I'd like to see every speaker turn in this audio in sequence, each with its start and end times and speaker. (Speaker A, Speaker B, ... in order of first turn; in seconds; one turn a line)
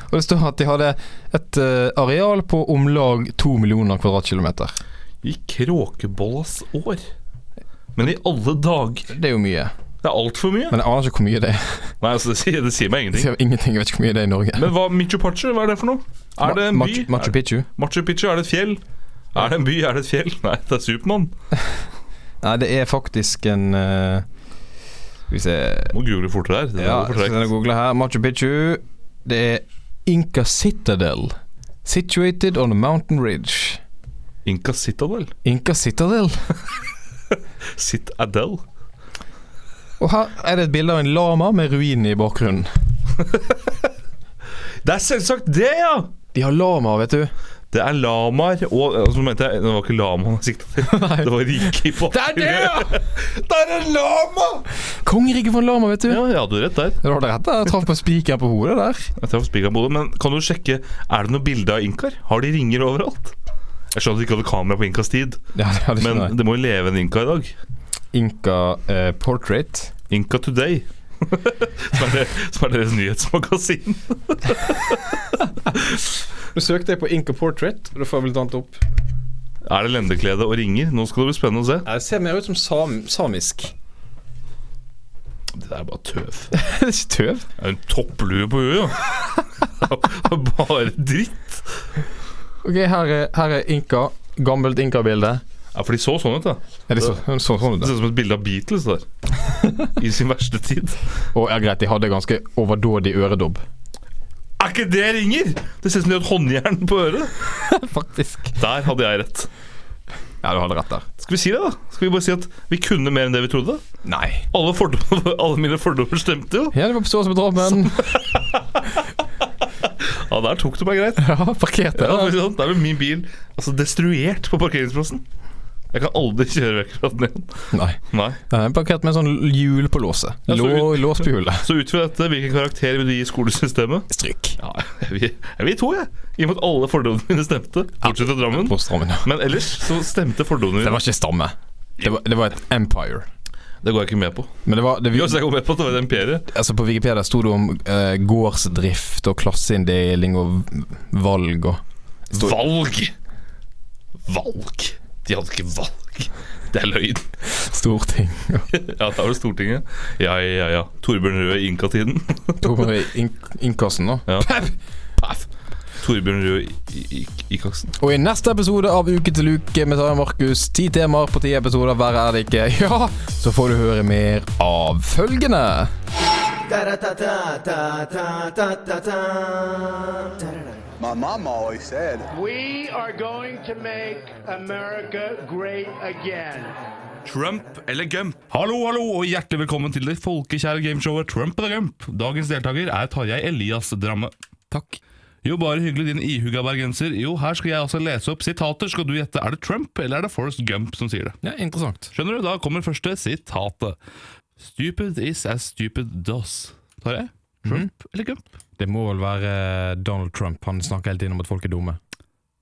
Speaker A: 0.1-4.7
Speaker B: 5.2-7.1
Speaker B: 7.9-9.1
Speaker A: 9.1-9.7
Speaker B: 10.0-10.8
Speaker A: 10.7-11.9
Speaker B: 12.0-13.3
Speaker A: 13.1-14.7
Speaker B: 14.6-18.8
Speaker A: 16.4-17.7
Speaker B: 19.3-21.3
Speaker A: 22.4-24.2
Speaker A: 25.3-25.9
Speaker B: 25.9-27.5
Speaker A: 26.8-33.8
Speaker B: 34.4-35.3
Speaker A: 35.4-36.5
Speaker B: 37.7-38.6
Speaker A: 40.0-42.7
Speaker B: 44.8-46.1
Speaker A: 46.3-47.3
Speaker B: 47.7-54.6
Speaker A: 50.8-53.0
Speaker A: 54.9-56.2
Speaker B: 56.1-57.0
Speaker A: 57.0-59.1
Speaker B: 59.2-63.4
Speaker B: 63.9-65.4
Speaker A: 65.5-66.3
Speaker B: 66.0-67.5
Speaker A: 68.1-69.9
Speaker B: 70.1-75.8
Speaker A: 76.5-78.8
Speaker B: 79.7-81.8
Speaker A: 81.8-83.7
Speaker B: 85.5-86.5
Speaker A: 86.5-87.5
Speaker B: 87.6-91.8
Speaker A: 92.6-95.4
Speaker B: 95.7-97.2
Speaker A: 96.9-98.0
Speaker B: 97.8-99.1
Speaker B: 99.8-101.0
Speaker A: 101.3-103.6
Speaker B: 104.6-107.4
Speaker A: 107.5-108.6
Speaker B: 108.6-109.5
Speaker A: 110.4-111.1
Speaker B: 111.2-113.8
Speaker A: 114.0-114.5
Speaker B: 114.5-116.8
Speaker A: 116.7-118.2
Speaker B: 117.8-119.0
Speaker B: 119.8-121.2
Speaker A: 121.2-122.4
Speaker B: 121.9-125.2
Speaker B: 125.9-128.4
Speaker A: 127.7-131.6
Speaker B: 130.5-141.0
Speaker A: 134.1-134.6
Speaker A: 138.0-139.3
Speaker A: 140.8-143.2
Speaker B: 143.8-144.5
Speaker A: 144.6-145.5
Speaker B: 145.1-146.5
Speaker A: 146.5-152.6
Speaker B: 152.3-153.1
Speaker B: 154.2-157.3
Speaker A: 157.4-158.7
Speaker B: 158.7-162.8
Speaker A: 162.6-164.7
Speaker B: 165.2-165.5
Speaker B: 166.0-167.9
Speaker A: 168.0-175.9
Speaker C: 176.7-180.4
Speaker D: 177.0-177.4
Speaker C: 181.0-182.3
Speaker D: 182.3-186.8
Speaker B: 187.2-194.3
Speaker A: 194.7-195.0
Speaker B: 195.4-201.3
Speaker A: 201.4-202.1
Speaker B: 202.1-204.0
Speaker B: 204.6-208.4
Speaker A: 207.6-207.9
Speaker A: 208.8-212.0